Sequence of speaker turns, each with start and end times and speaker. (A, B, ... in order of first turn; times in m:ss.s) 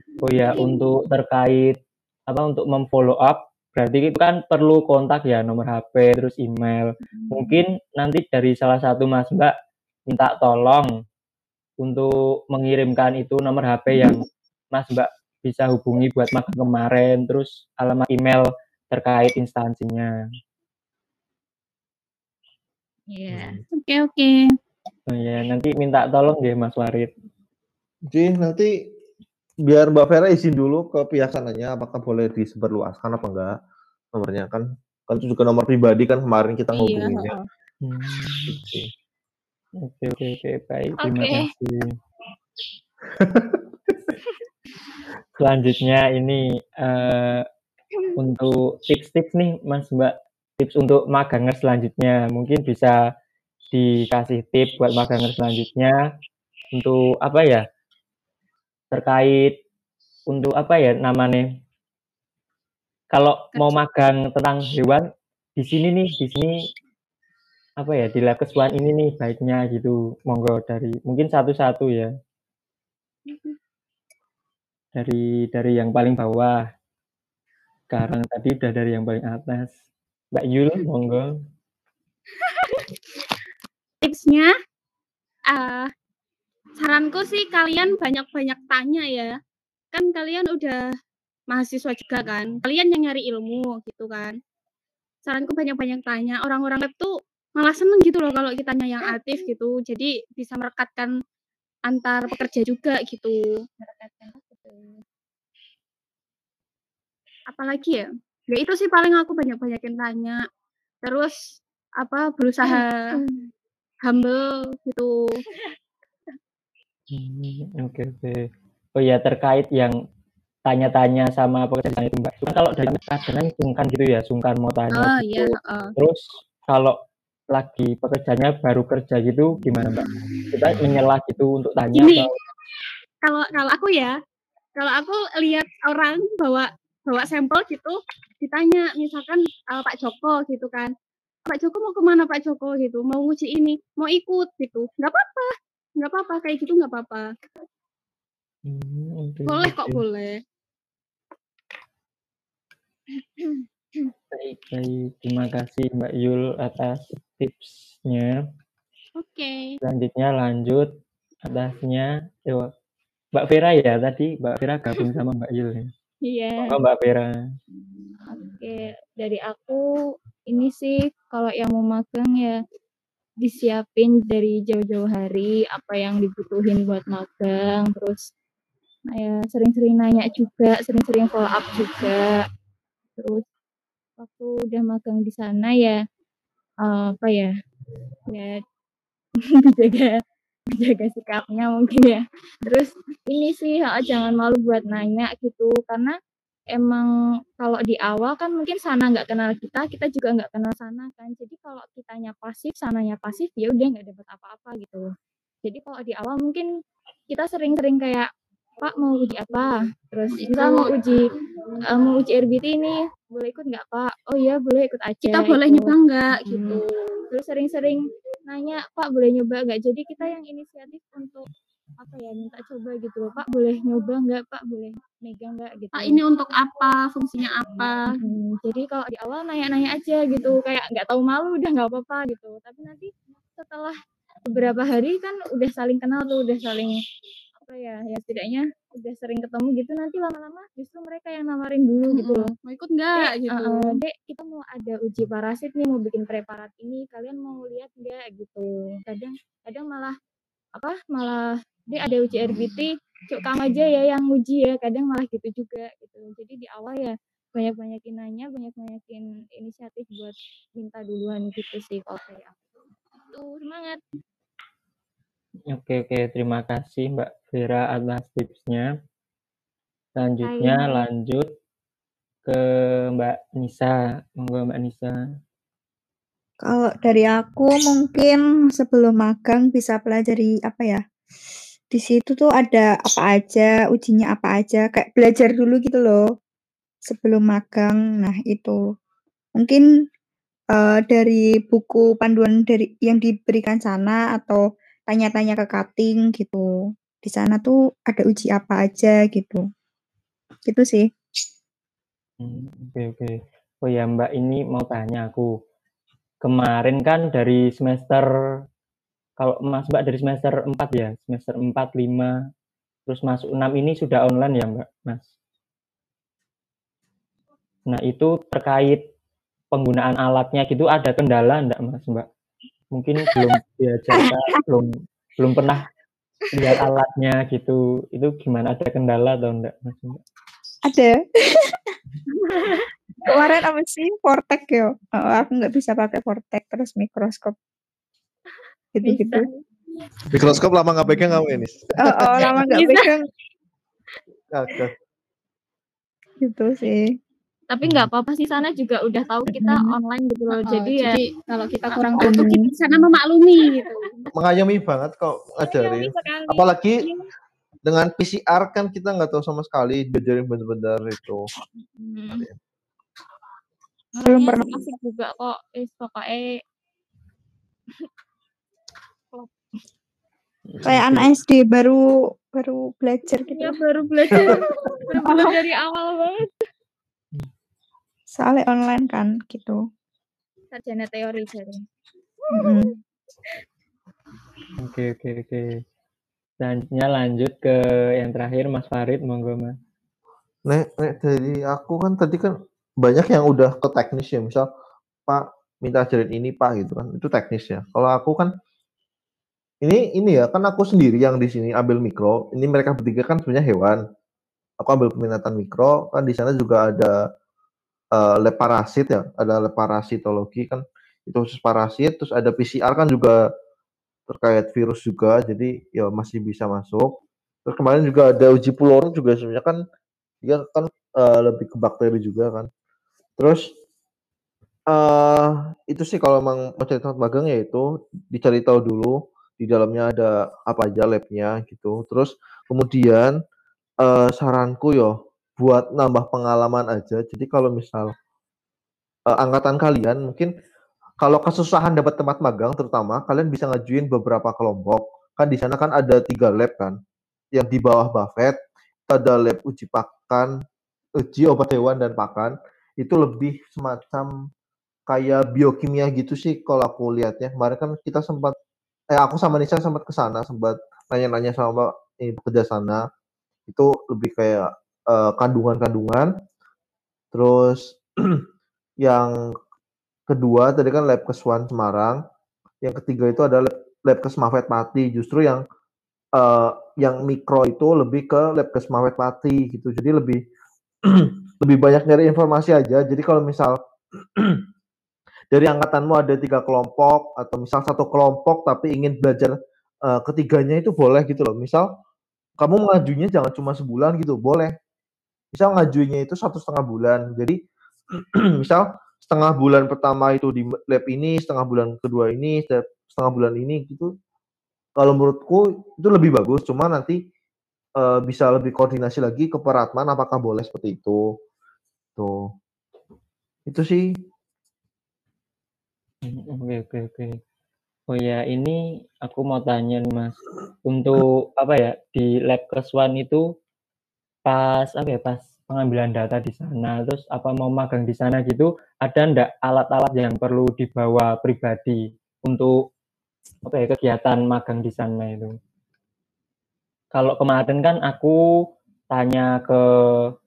0:00.2-0:09.5 A
0:07.2-0:07.5 B
0:10.1-0:10.9 A
0:11.8-0:20.1 A
0:23.1-0:23.6 B
0:23.3-0:23.6 C
0:23.7-0:24.5 D
0:25.1-0:27.1 A
0:28.1-0:28.7 C
0:29.6-0:33.5 C
0:34.1-0:37.4 C
0:36.7-0:37.4 D
0:37.8-0:38.5 A
0:38.5-0:38.9 C
0:39.8-0:42.0 A
0:41.1-0:41.4 B
0:43.2-0:43.9 C
0:45.4-0:47.4 A
0:48.2-0:52.9 A
0:53.7-0:55.9 A
0:56.7-0:57.6 A
0:58.9-0:59.6 A
1:00.3-1:01.5 A
1:03.1-1:06.5 A
1:07.8-1:12.1 A
1:13.3-1:13.5 D
1:14.9-1:16.6 A
1:17.9-1:19.7 A
1:20.3-1:21.3 A
1:24.0-1:24.5 D
1:25.5-1:25.9 D
1:26.8-1:29.3 D
1:29.9-1:30.8 D
1:31.5-1:34.4 D
1:35.2-1:41.1 D
1:39.0-1:39.5 B
1:41.9-1:43.4 D
1:43.8-1:45.0 B
1:47.5-1:50.4 D
1:51.0-1:53.1 D
1:52.6-1:53.5 B
1:54.0-1:55.3 D
1:57.1-1:58.4 A
1:59.0-2:00.0 A
2:00.7-2:07.0 A
2:05.0-2:05.9 D
2:07.5-2:12.3 A
2:11.9-2:12.3 D
2:13.2-2:14.1 D
2:14.8-2:20.9 D
2:21.5-2:27.3 D
2:28.7-2:30.0 A
2:29.4-2:30.4 D
2:34.3-2:38.3 A
2:39.2-2:39.7 D
2:39.8-2:40.9 A
2:41.4-2:42.7 A
2:43.3-2:45.9 A
2:46.2-2:46.8 B
2:46.6-2:47.3 A
2:48.3-2:49.8 B
2:50.5-2:52.6 B
2:53.4-2:58.3 B
2:59.1-3:02.4 B
3:03.2-3:03.4 B
3:04.2-3:06.0 B
3:06.8-3:07.5 B
3:08.3-3:08.6 B
3:09.4-3:10.2 B
3:10.7-3:16.1 B
3:16.7-3:17.1 B
3:17.6-3:25.0 B
3:25.6-3:26.6 B
3:27.3-3:28.3 B
3:28.8-3:31.3 B
3:30.4-3:30.9 D
3:31.9-3:41.5 B
3:35.2-3:36.8 D
3:42.0-3:46.2 B
3:45.9-3:48.0 D
3:48.1-3:57.0 B
3:57.6-4:02.5 B
4:02.1-4:04.0 D
4:03.1-4:10.2 B
4:10.8-4:22.6 B
4:23.3-4:24.0 B
4:25.7-4:28.9 A
4:30.2-4:31.5 A
4:30.4-4:31.0 B
4:33.1-4:35.1 A
4:36.6-4:41.0 E
4:41.9-4:46.2 E
4:47.1-4:48.8 E
4:49.6-4:49.8 E
4:50.8-4:56.6 E
4:57.2-4:59.6 E
5:00.7-5:01.1 E
5:02.4-5:05.5 A
5:06.4-5:08.3 A
5:09.4-5:12.3 A
5:13.1-5:15.3 A
5:17.9-5:19.0 A
5:19.7-5:22.3 A
5:22.9-5:25.9 A
5:24.1-5:24.5 E
5:26.5-5:30.2 A
5:30.8-5:31.8 E
5:33.2-5:37.6 E
5:39.0-5:39.5 E
5:39.0-5:39.6 B
5:40.3-5:42.6 C
5:42.0-5:43.2 E
5:42.7-5:43.1 D
5:44.5-5:44.9 C
5:46.4-5:47.0 E
5:47.7-5:51.2 B
5:50.6-5:54.1 D
5:51.9-5:52.3 B
5:52.2-5:52.6 E
5:53.8-5:54.3 B
5:54.3-5:57.1 C
5:55.8-5:56.6 B
5:57.8-6:01.5 C
6:02.0-6:02.5 B
6:04.2-6:06.5 B
6:04.2-6:04.8 E
6:10.7-6:11.3 A
6:10.8-6:12.0 E
6:12.5-6:13.8 E
6:13.3-6:16.5 B
6:14.3-6:14.6 C
6:15.2-6:15.5 E
6:18.3-6:19.8 E
6:20.7-6:21.8 B
6:22.5-6:23.0 B
6:22.5-6:22.9 E
6:24.8-6:25.7 A
6:26.6-6:29.7 A
6:30.6-6:34.7 C
6:35.3-6:38.5 C
6:39.8-6:44.0 C
6:44.8-6:47.2 C
6:48.1-6:53.4 C
6:54.3-6:59.8 C
7:00.4-7:02.7 C
7:03.4-7:03.7 C
7:04.9-7:13.4 C
7:14.0-7:18.1 C
7:19.3-7:20.5 C
7:21.2-7:27.0 C
7:27.5-7:28.6 C
7:29.1-7:30.5 C
7:31.2-7:34.3 C
7:35.1-7:38.5 C
7:39.1-7:43.1 C
7:43.7-7:46.3 C
7:47.3-7:48.4 C
7:49.0-7:49.3 C
7:50.3-7:52.2 C
7:52.8-7:55.6 C
7:56.4-8:00.4 C
8:01.0-8:04.6 C
8:05.5-8:11.9 C
8:12.6-8:14.7 C
8:15.5-8:17.6 C
8:18.1-8:24.1 C
8:25.0-8:27.2 C
8:28.0-8:31.3 C
8:32.2-8:32.5 C
8:33.7-8:34.1 C
8:36.2-8:37.4 A
8:38.1-8:43.4 A
8:44.4-8:52.8 A
8:53.6-8:55.5 A
8:57.1-8:58.4 A
8:59.1-9:00.2 A